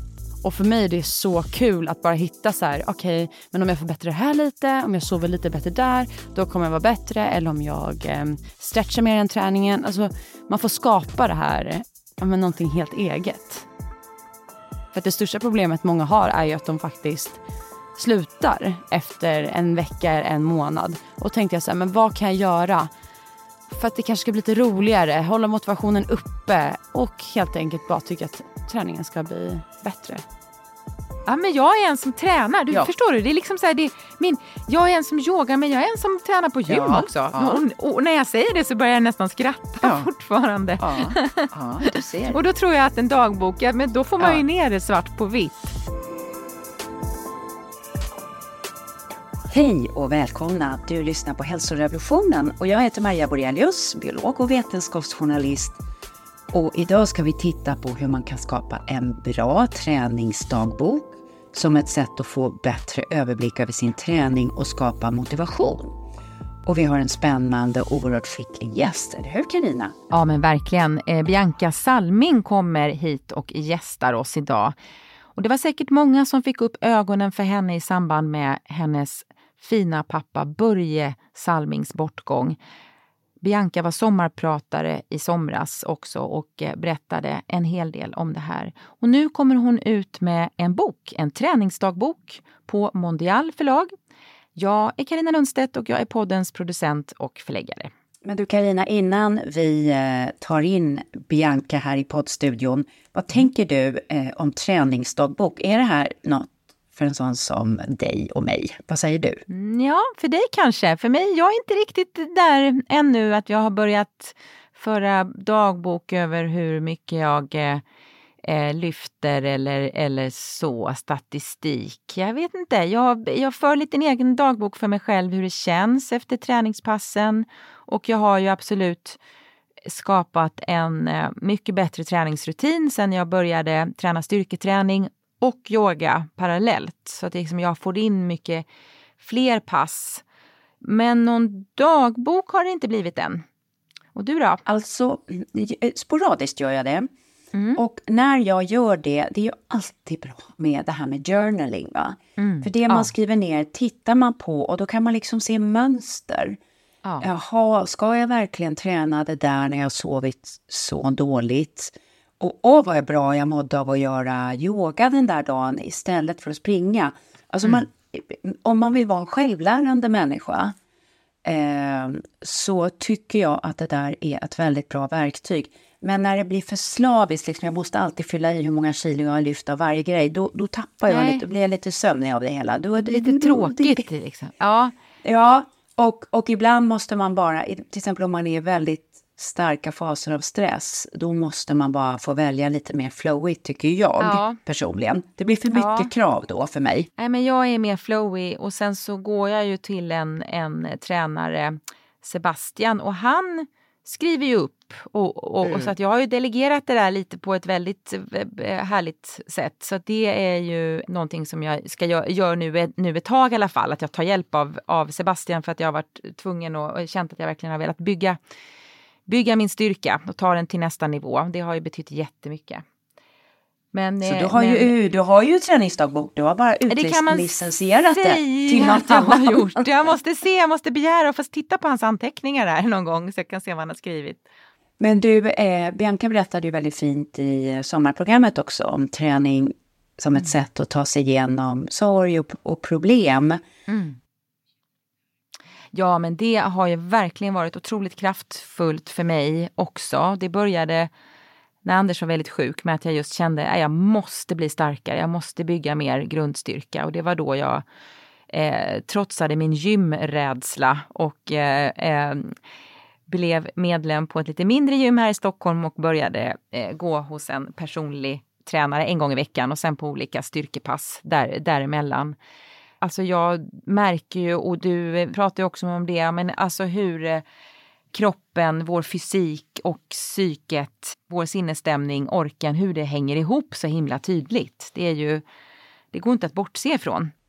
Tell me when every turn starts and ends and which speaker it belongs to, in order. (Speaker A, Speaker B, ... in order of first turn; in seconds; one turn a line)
Speaker A: 0.4-13.7
Speaker A: 14.9-17.4
Speaker A: 18.0-22.9
Speaker A: 23.7-30.2
Speaker B: 31.3-41.5
Speaker C: 36.7-37.6
Speaker C: 39.8-40.1
Speaker C: 40.8-42.4
Speaker B: 42.3-45.7
Speaker C: 49.5-55.8
Speaker C: 56.5-66.0
Speaker C: 66.7-69.9
Speaker B: 70.1-74.8
Speaker B: 75.3-82.6
Speaker B: 83.4-93.9
Speaker B: 94.6-97.9
Speaker C: 98.2-109.4
Speaker B: 109.5-117.8
Speaker B: 118.4-129.2
Speaker B: 129.9-138.7
Speaker B: 139.2-140.2
Speaker B: 140.8-143.4
Speaker B: 144.2-144.6
Speaker C: 144.7-147.1
Speaker B: 147.5-147.8
Speaker C: 147.8-156.6
Speaker B: 152.4-153.1
Speaker C: 157.2-170.8
Speaker C: 171.4-184.1
Speaker B: 181.1-181.4
Speaker B: 183.0-184.9
Speaker C: 185.2-197.1
Speaker B: 194.2-194.6
Speaker B: 195.7-196.1
Speaker B: 197.2-218.4
Speaker C: 205.7-205.9
Speaker B: 219.3-222.8
Speaker B: 223.9-224.9
Speaker C: 224.2-229.8
Speaker B: 226.9-234.4
Speaker C: 235.0-243.6
Speaker B: 243.9-244.2
Speaker B: 245.9-251.1
Speaker B: 251.8-257.8
Speaker B: 258.5-262.6
Speaker B: 263.3-272.4
Speaker B: 273.0-277.4
Speaker B: 278.1-285.4
Speaker B: 286.1-287.3